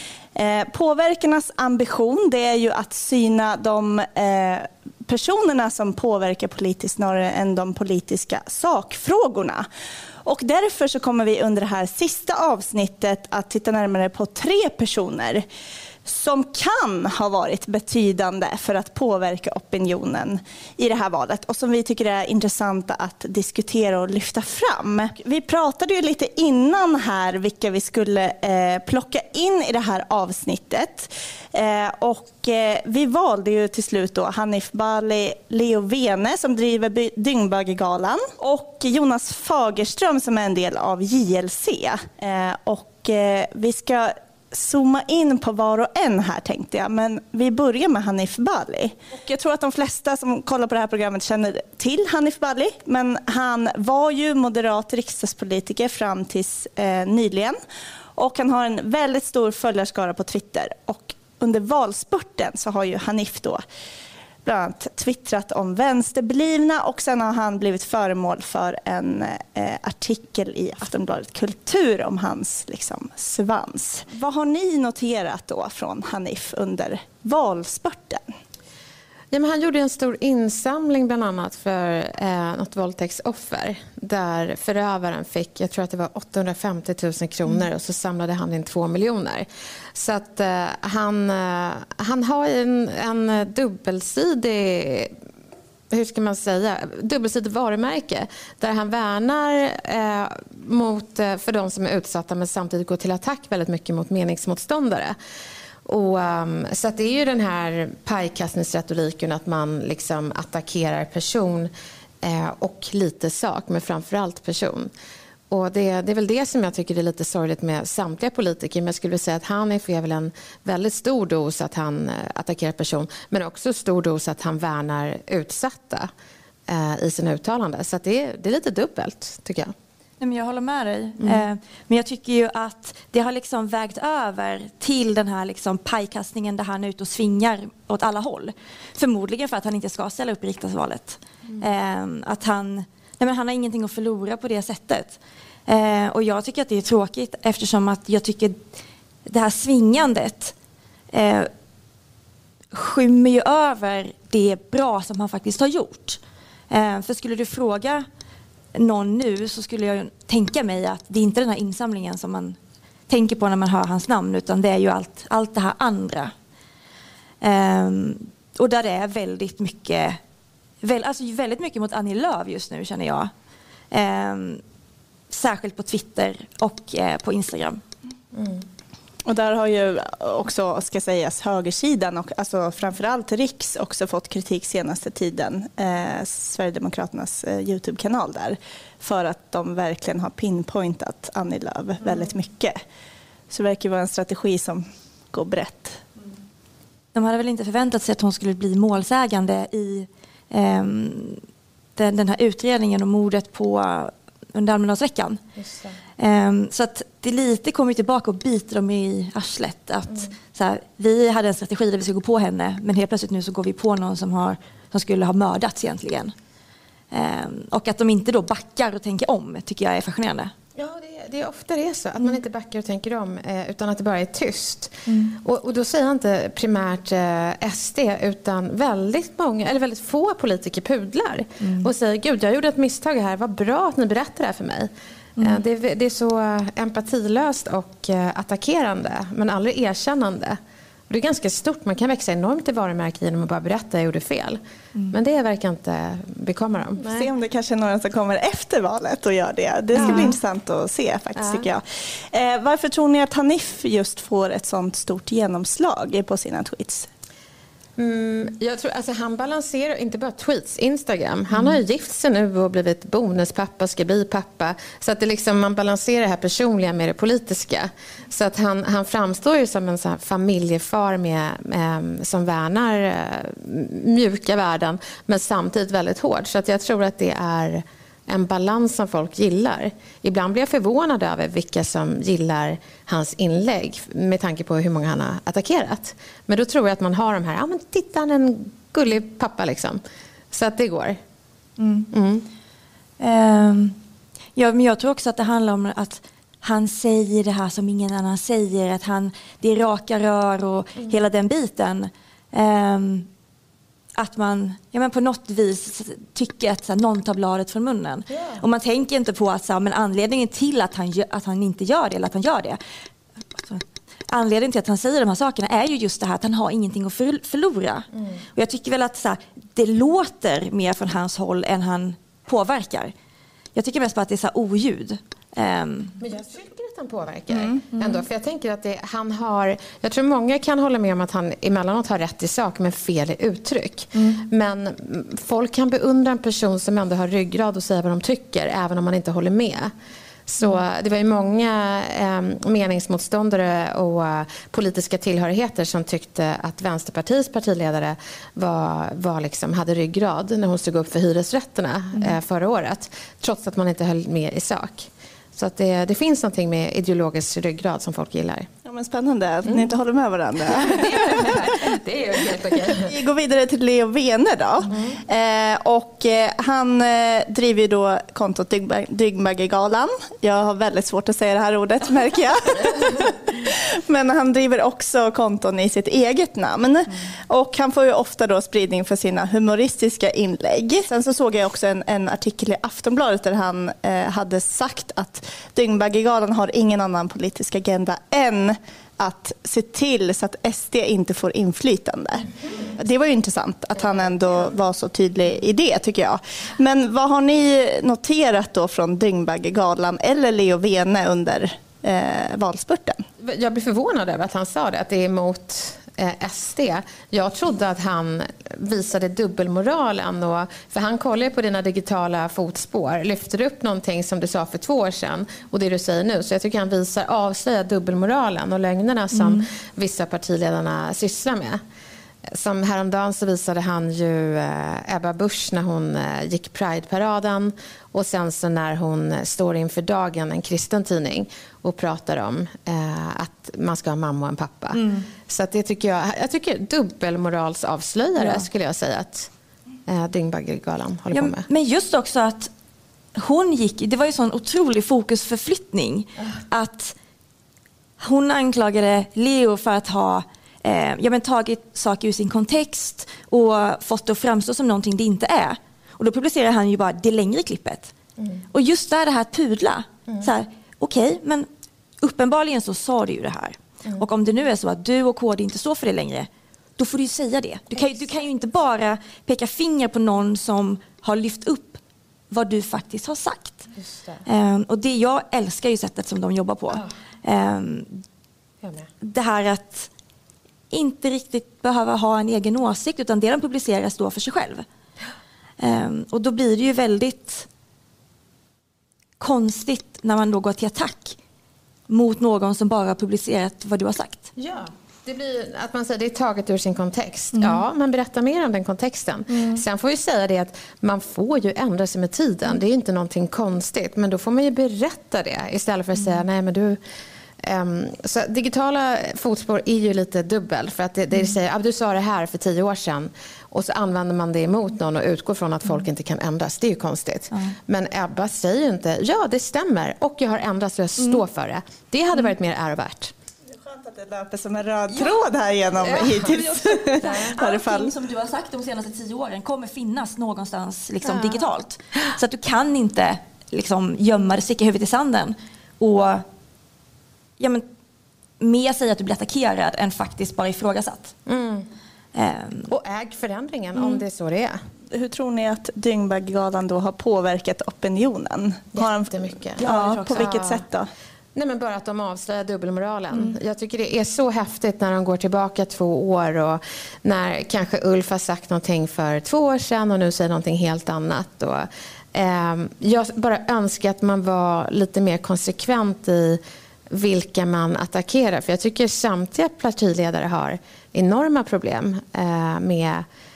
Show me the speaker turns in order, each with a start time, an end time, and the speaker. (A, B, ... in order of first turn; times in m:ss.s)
0:00.4-0:09.7 A
0:10.2-0:15.4 A
0:16.1-0:57.6 A
0:58.2-1:03.6 A
1:04.4-1:18.2 A
1:19.3-1:35.1 B
1:35.9-1:45.2 B
1:45.9-1:51.7 B
1:52.2-1:54.9 B
1:55.5-2:06.1 B
2:06.7-2:09.7 B
2:10.2-2:28.7 C
2:11.2-2:11.4 B
2:29.2-2:30.6 C
2:31.1-2:31.5 C
2:32.7-2:38.0 C
2:38.7-2:42.6 C
2:43.1-2:46.3 C
2:47.4-2:50.2 C
2:50.8-2:53.3 C
2:53.9-2:54.6 C
2:55.3-2:57.8 C
2:58.3-2:58.6 B
2:59.3-3:12.8 A
3:13.5-3:16.0 A
3:17.1-3:21.4 C
3:22.0-3:25.4 C
3:25.6-3:26.0 B
3:26.2-3:36.3 C
3:37.1-3:40.5 C
3:40.8-4:00.6 B
3:45.1-3:45.4 C
3:51.6-3:51.9 C
3:55.4-3:55.6 C
4:01.1-4:04.6 B
4:05.1-4:07.3 B
4:07.1-4:17.1 A
4:09.9-4:10.4 B
4:10.0-4:10.3 C
4:11.4-4:11.7 B
4:18.0-4:50.0 B
4:50.5-4:51.2 B
4:51.8-4:52.1 C
4:52.1-4:52.5 B
4:53.2-4:54.0 C
4:54.6-5:03.3 C
5:04.2-5:12.8 C
5:08.3-5:08.6 B
5:13.5-5:23.1 C
5:23.8-5:26.2 C
5:26.2-5:39.9 B
5:40.5-5:58.7 B
5:58.8-6:01.6 A
6:00.7-6:03.1 B
6:03.0-6:43.2 A
6:04.9-6:05.2 B
6:43.4-7:01.8 B
6:59.3-6:59.6 C
7:02.5-7:19.5 B
7:14.9-7:15.3 C
7:18.4-7:18.6 C
7:20.1-7:21.7 B
7:21.3-7:22.7 C
7:23.4-7:27.1 C
7:28.2-7:38.1 C
7:38.7-7:41.7 C
7:42.2-7:53.9 C
7:54.0-7:54.4 B
7:54.4-7:58.2 C
7:59.2-8:00.1 C
8:00.9-8:04.9 C
8:05.8-8:07.7 C
8:09.4-8:11.4 C
8:12.1-8:14.5 C
8:14.6-8:27.0 B
8:17.5-8:17.8 C
8:19.5-8:19.8 C
8:26.2-8:26.4 C
8:27.6-8:43.3 B
8:43.8-8:48.1 A
8:45.1-8:45.4 C
8:46.0-8:46.5 B
8:46.1-8:56.4 C
8:47.2-8:47.5 B
8:51.2-8:51.6 B
8:57.6-8:57.8 C
8:58.6-9:01.3 C
9:01.5-9:01.9 B
9:02.3-9:02.9 C
9:02.9-9:04.8 B
9:05.1-9:11.1 A
9:09.0-9:10.8 B
9:09.8-9:10.5 C
9:11.6-9:33.2 B